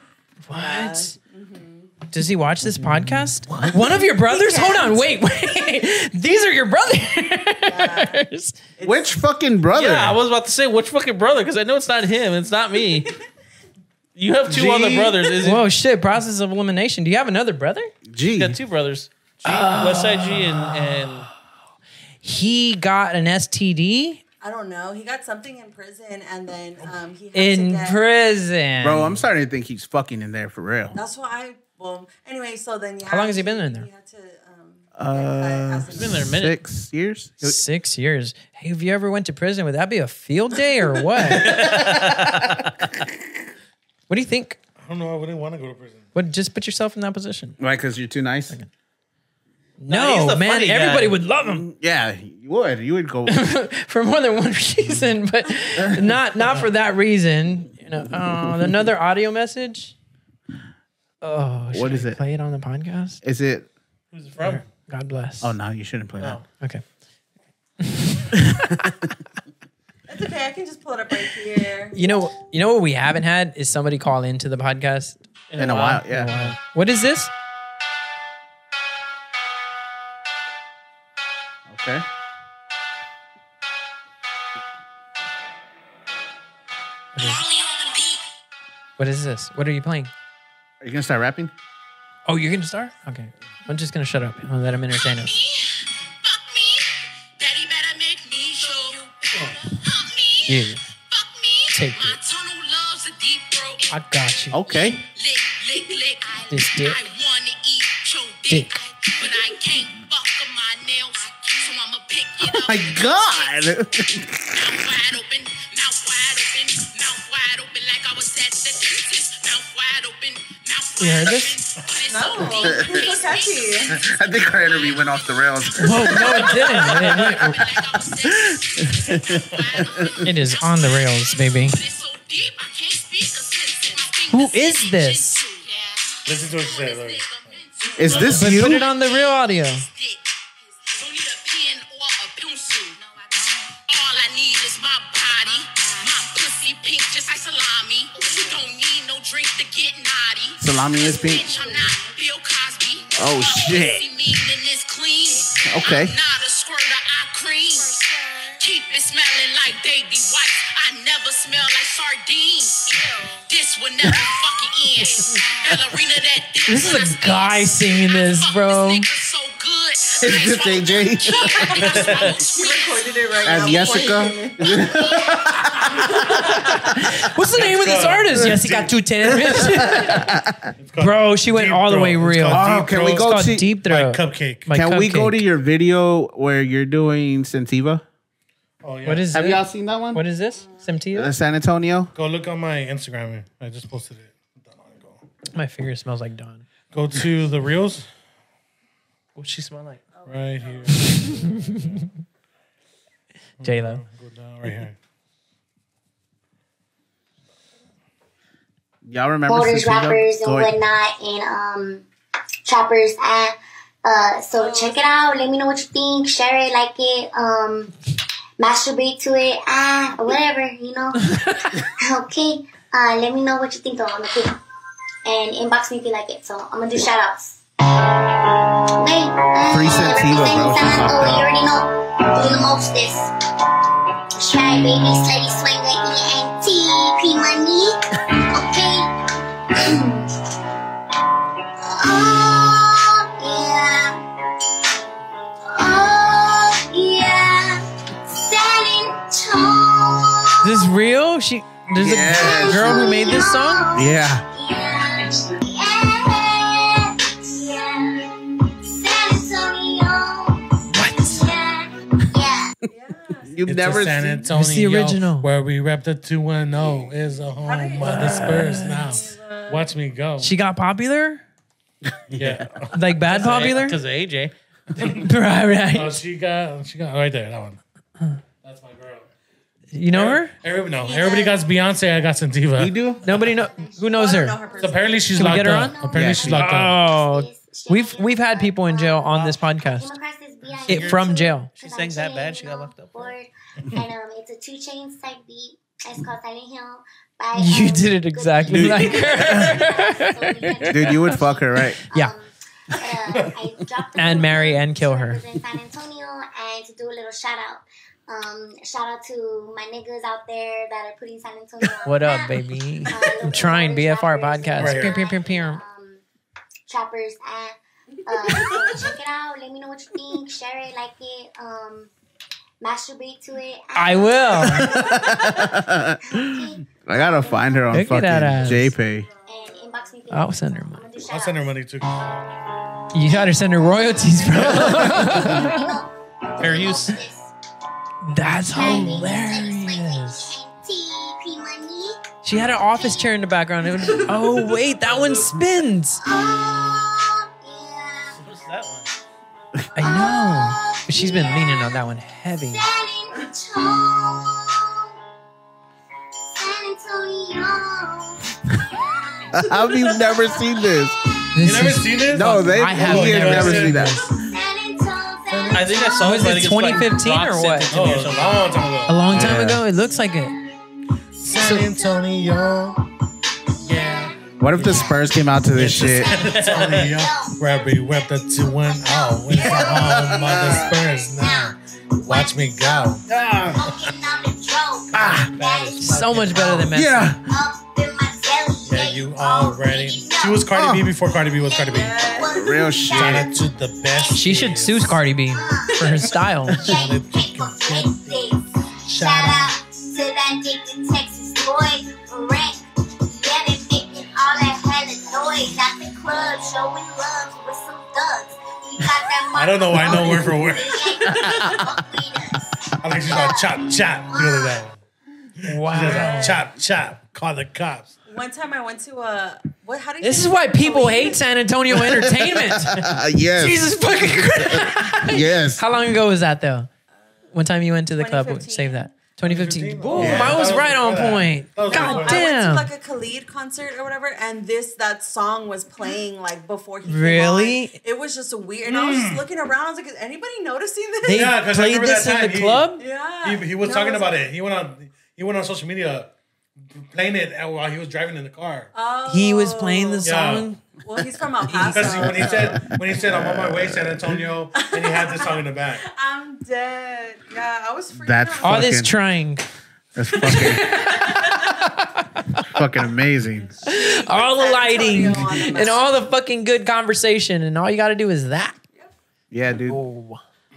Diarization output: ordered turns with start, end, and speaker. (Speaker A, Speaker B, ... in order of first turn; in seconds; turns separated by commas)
Speaker A: 0.5-1.2, Speaker B: 0.5-1.9, Speaker A: 2.1-8.6, Speaker C: 2.7-3.8, Speaker B: 3.7-5.1, Speaker B: 7.6-8.2, Speaker B: 8.8-9.2, Speaker C: 8.8-10.2, Speaker D: 9.7-13.1, Speaker D: 14.2-15.6, Speaker E: 14.5-15.2, Speaker A: 15.4-17.9, Speaker C: 18.1-18.6, Speaker D: 18.4-21.3, Speaker A: 19.4-21.0, Speaker A: 22.2-24.2, Speaker B: 24.4-28.0, Speaker A: 27.3-29.2, Speaker C: 28.8-31.0, Speaker B: 30.9-36.4, Speaker A: 33.0-33.9, Speaker C: 35.0-37.6, Speaker D: 35.9-36.6, Speaker A: 37.4-41.5, Speaker D: 41.3-42.7, Speaker C: 41.5-42.0, Speaker A: 44.1-44.6, Speaker E: 44.8-46.1, Speaker A: 46.1-47.6, Speaker C: 47.6-48.5, Speaker A: 49.8-51.6, Speaker D: 49.9-51.2, Speaker C: 51.4-53.4, Speaker A: 53.3-59.9, Speaker C: 55.8-56.1, Speaker A: 61.2-63.2, Speaker C: 61.7-62.2, Speaker C: 63.2-63.7, Speaker D: 64.1-64.6, Speaker A: 64.4-65.5, Speaker C: 65.4-66.4, Speaker A: 67.8-68.8, Speaker B: 70.1-72.1, Speaker A: 71.9-75.2, Speaker D: 75.5-76.5, Speaker C: 75.6-76.5, Speaker A: 76.0-77.3, Speaker C: 81.7-82.0, Speaker A: 87.2-87.4, Speaker F: 87.2-88.2, Speaker A: 89.0-90.1, Speaker C: 90.8-91.5, Speaker A: 92.2-95.3, Speaker F: 94.9-113.7, Speaker A: 100.5-100.8, Speaker A: 101.7-102.2, Speaker A: 103.9-104.6, Speaker C: 104.5-105.0, Speaker A: 106.5-107.0, Speaker A: 108.5-108.7, Speaker C: 112.4-114.4, Speaker F: 114.5-140.3, Speaker A: 121.0-121.6, Speaker B: 122.1-124.0, Speaker C: 122.5-123.1, Speaker C: 123.9-127.7, Speaker A: 125.8-127.6, Speaker E: 126.4-126.8, Speaker C: 128.2-130.2, Speaker A: 130.2-131.8, Speaker A: 134.3-135.4, Speaker E: 136.2-137.6, Speaker C: 138.0-138.8, Speaker A: 138.2-139.8, Speaker F: 140.9-173.1, Speaker C: 150.6-151.5, Speaker G: 151.4-151.7, Speaker C: 153.1-154.1, Speaker C: 155.7-156.1, Speaker A: 166.7-169.1, Speaker C: 170.2-172.0, Speaker B: 171.4-175.0, Speaker E: 171.8-172.2, Speaker C: 173.4-175.9, Speaker A: 176.6-180.3, Speaker E: 177.4-179.9, Speaker C: 179.6-180.6, Speaker E: 180.8-184.7, Speaker A: 181.0-185.4, Speaker C: 182.5-183.7, Speaker C: 184.7-188.0, Speaker E: 188.8-189.3, Speaker A: 189.0-191.3, Speaker C: 189.3-190.2, Speaker B: 190.6-190.9, Speaker C: 191.1-192.1, Speaker E: 192.1-195.2, Speaker A: 195.5-196.6, Speaker E: 196.9-198.1, Speaker D: 199.3-200.1, Speaker B: 200.1-201.7, Speaker E: 200.2-202.0, Speaker E: 203.6-204.9, Speaker A: 203.6-204.0, Speaker C: 209.0-210.7, Speaker G: 209.5-212.1, Speaker G: 212.7-217.9, Speaker B: 214.6-215.1, Speaker G: 218.6-224.6, Speaker A: 221.3-221.6, Speaker G: 225.2-227.6, Speaker G: 229.0-233.3, Speaker C: 229.7-231.5, Speaker G: 234.4-239.1, Speaker G: 239.7-240.3, Speaker G: 241.8-244.2, Speaker G: 245.7-250.8, Speaker A: 250.6-253.8, Speaker C: 252.0-253.2, Speaker G: 252.3-262.8, Speaker C: 253.9-254.4, Speaker A: 260.9-261.5, Speaker B: 262.9-263.6, Speaker C: 263.5-264.5, Speaker E: 263.6-270.5, Speaker A: 264.5-265.5, Speaker B: 267.6-269.9, Speaker A: 268.0-269.2, Speaker A: 270.4-271.4, Speaker C: 272.3-272.7, Speaker E: 272.3-272.9, Speaker A: 272.9-274.0, Speaker D: 273.2-274.5, Speaker E: 275.0-275.3, Speaker A: 275.0-276.2, Speaker E: 275.9-277.8, Speaker E: 278.6-279.3, Speaker A: 279.9-280.5, Speaker E: 280.1-283.0, Speaker G: 280.9-281.8, Speaker C: 282.8-283.2, Speaker G: 283.2-316.2, Speaker A: 283.2-284.6, Speaker B: 284.1-285.3, Speaker E: 284.8-287.0, Speaker A: 285.3-286.0, Speaker C: 286.1-286.6, Speaker A: 286.5-290.1, Speaker D: 290.8-291.2, Speaker A: 290.9-291.7, Speaker D: 291.7-293.3, Speaker A: 297.5-301.4, Speaker C: 298.7-299.7, Speaker C: 300.9-302.0, Speaker A: 304.1-305.4, Speaker A: 312.1-315.8, Speaker E: 314.8-315.2, Speaker G: 316.9-322.1, Speaker B: 318.4-319.0, Speaker G: 322.8-325.2, Speaker A: 323.9-325.0, Speaker C: 324.6-329.3, Speaker G: 326.3-327.7, Speaker A: 327.9-328.9, Speaker G: 329.4-331.8, Speaker A: 330.3-331.0, Speaker E: 331.3-332.4, Speaker A: 333.1-335.9, Speaker G: 333.2-337.5, Speaker E: 334.7-335.1, Speaker D: 336.6-337.2, Speaker A: 338.2-340.5, Speaker G: 338.6-342.2, Speaker A: 342.4-346.2, Speaker G: 342.9-343.3, Speaker B: 344.1-344.4, Speaker G: 346.2-348.4, Speaker D: 348.3-349.1, Speaker G: 349.9-352.0, Speaker A: 349.9-352.8, Speaker G: 352.7-355.1, Speaker G: 356.6-361.1, Speaker C: 359.5-361.1, Speaker A: 361.6-364.2, Speaker E: 361.6-364.2, Speaker C: 362.3-364.3, Speaker G: 364.4-367.0, Speaker E: 365.5-365.8, Speaker D: 365.7-368.5, Speaker A: 366.2-367.9, Speaker E: 367.9-369.6, Speaker A: 369.1-370.5, Speaker C: 369.3-369.8, Speaker G: 369.8-373.1, Speaker E: 371.4-372.9, Speaker G: 373.7-375.2, Speaker D: 373.9-374.3, Speaker C: 374.6-376.3, Speaker E: 374.8-375.1, Speaker E: 375.7-381.7, Speaker G: 375.8-386.9, Speaker D: 376.4-376.9, Speaker C: 379.6-380.9, Speaker E: 382.2-383.2, Speaker C: 383.3-383.8, Speaker E: 383.8-384.1, Speaker E: 385.1-386.9, Speaker C: 385.1-385.5, Speaker A: 386.0-387.3, Speaker C: 386.9-387.4, Speaker G: 387.4-390.8, Speaker E: 388.9-392.2, Speaker C: 390.7-391.1, Speaker G: 391.3-394.9, Speaker B: 391.9-392.6, Speaker C: 392.5-393.5, Speaker E: 393.1-395.2, Speaker A: 394.3-396.9, Speaker G: 395.5-412.7, Speaker E: 396.8-398.4, Speaker E: 399.1-399.7, Speaker E: 409.5-411.6, Speaker E: 413.0-414.9, Speaker G: 413.2-414.8, Speaker E: 415.6-418.1, Speaker A: 415.6-416.6, Speaker B: 416.0-416.6, Speaker B: 418.3-421.4, Speaker A: 420.2-426.9, Speaker C: 421.9-425.8, Speaker A: 427.5-432.9, Speaker B: 428.1-429.2, Speaker E: 429.4-432.5, Speaker C: 430.1-430.6, Speaker B: 430.2-430.8, Speaker B: 431.8-441.5, Speaker A: 437.0-437.9, Speaker E: 438.8-439.4, Speaker A: 441.2-443.0, Speaker E: 441.3-442.9, Speaker B: 443.0-444.4, Speaker E: 443.4-446.3, Speaker E: 446.9-448.9, Speaker B: 448.9-450.3, Speaker A: 449.3-450.8, Speaker E: 450.2-450.7, Speaker B: 451.0-452.9, Speaker A: 451.7-452.1, Speaker E: 451.9-456.0, Speaker C: 452.4-454.4, Speaker B: 454.7-458.9, Speaker C: 458.1-459.1, Speaker A: 458.6-459.7, Speaker C: 460.1-460.8, Speaker A: 460.4-462.8, Speaker B: 461.1-461.6, Speaker C: 462.7-463.7, Speaker B: 463.8-466.1, Speaker A: 463.8-468.8, Speaker C: 469.5-470.0, Speaker A: 469.9-470.4